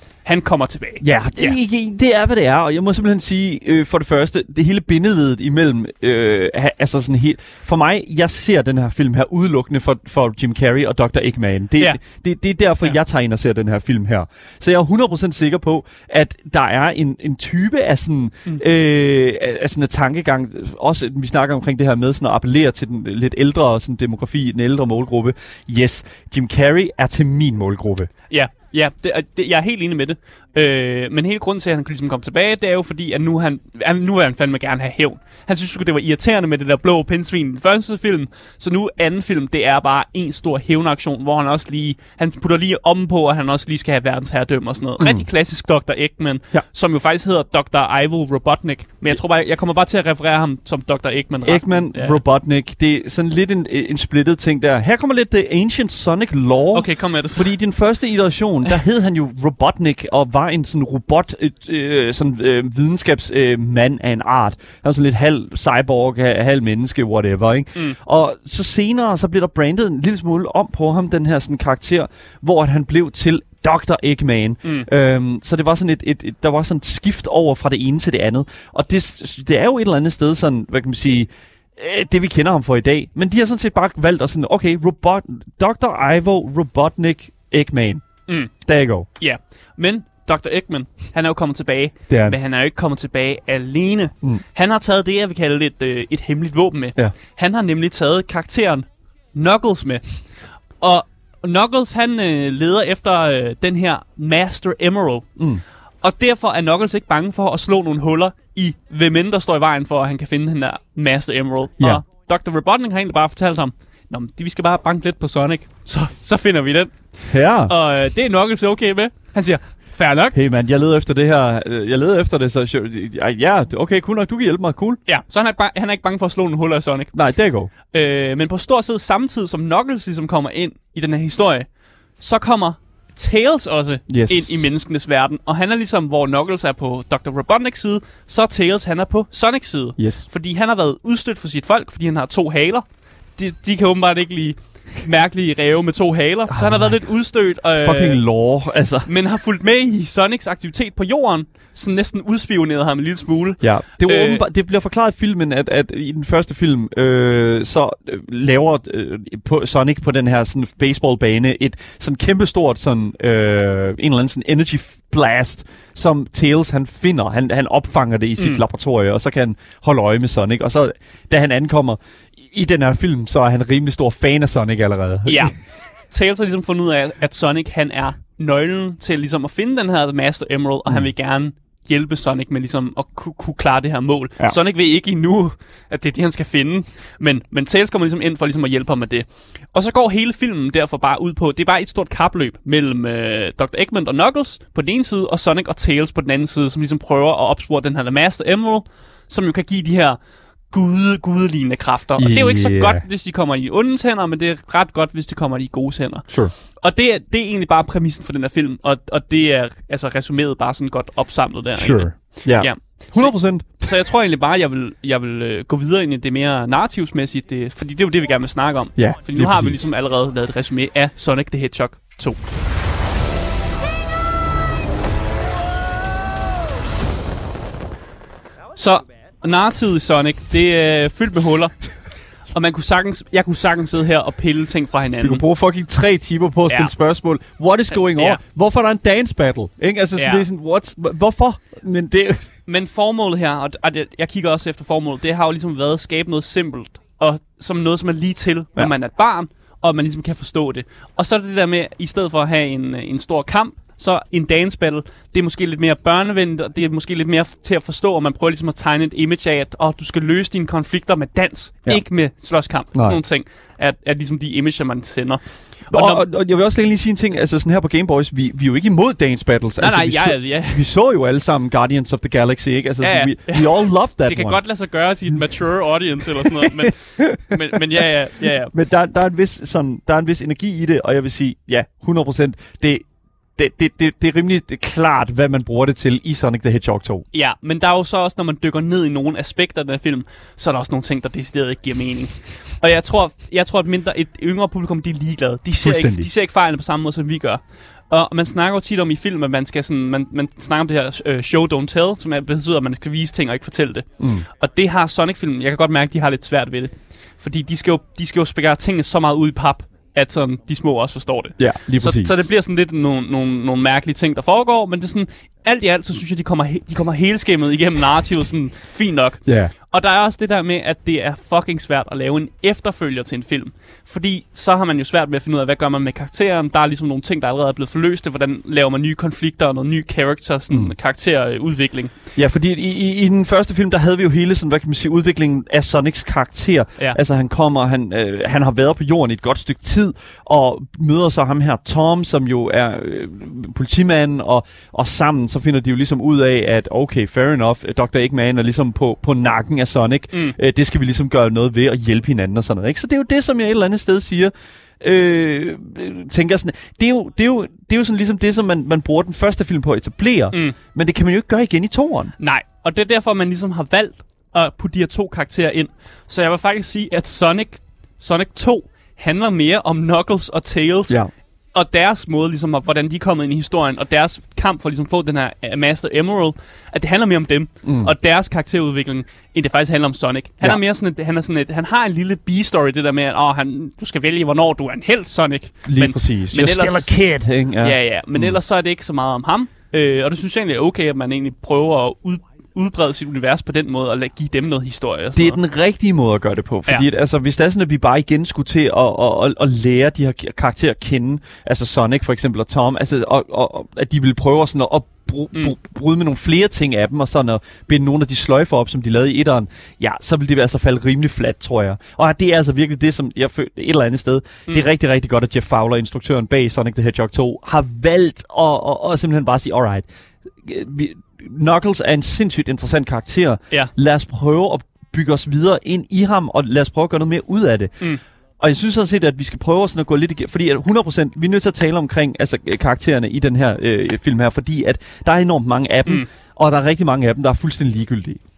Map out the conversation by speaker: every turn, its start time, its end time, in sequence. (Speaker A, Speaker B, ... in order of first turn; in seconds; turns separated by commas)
Speaker A: 0.2-1.6, Speaker B: 1.0-28.1, Speaker A: 28.3-52.2, Speaker B: 45.0-45.2, Speaker B: 51.5-89.1, Speaker A: 56.7-57.5, Speaker A: 74.6-74.9, Speaker A: 88.3-88.5, Speaker A: 89.2-100.3, Speaker B: 92.1-92.4, Speaker A: 100.8-105.4, Speaker B: 105.4-105.6, Speaker A: 106.0-120.4, Speaker B: 117.3-117.8, Speaker B: 120.3-125.0, Speaker A: 125.1-127.1, Speaker B: 127.1-127.7, Speaker A: 127.8-142.8, Speaker B: 134.1-134.7, Speaker B: 140.0-140.2, Speaker A: 143.4-148.2, Speaker B: 146.5-147.1, Speaker B: 147.8-149.1, Speaker A: 149.1-154.4, Speaker B: 153.6-175.6, Speaker A: 175.2-175.6, Speaker A: 176.1-200.2, Speaker A: 200.7-222.4, Speaker B: 202.2-203.0, Speaker B: 206.3-206.5, Speaker B: 211.8-213.9, Speaker B: 219.0-219.8, Speaker A: 228.7-235.4, Speaker B: 235.2-242.5, Speaker A: 238.1-238.4, Speaker A: 240.2-240.4, Speaker A: 242.7-266.2, Speaker B: 262.9-263.2, Speaker B: 265.9-274.6, Speaker A: 269.8-270.9, Speaker A: 273.0-278.7, Speaker B: 276.5-277.6, Speaker B: 278.7-283.1, Speaker B: 283.6-287.3, Speaker A: 287.3-304.1, Speaker B: 295.8-296.3, Speaker B: 304.2-304.5, Speaker A: 304.6-332.1, Speaker B: 311.6-312.4, Speaker B: 319.4-319.7, Speaker B: 332.4-362.3, Speaker A: 362.4-371.2, Speaker A: 371.7-387.1, Speaker B: 377.8-378.1, Speaker B: 385.9-388.6, Speaker A: 387.8-395.6, Speaker B: 395.4-420.1, Speaker B: 420.6-428.1, Speaker B: 428.6-438.4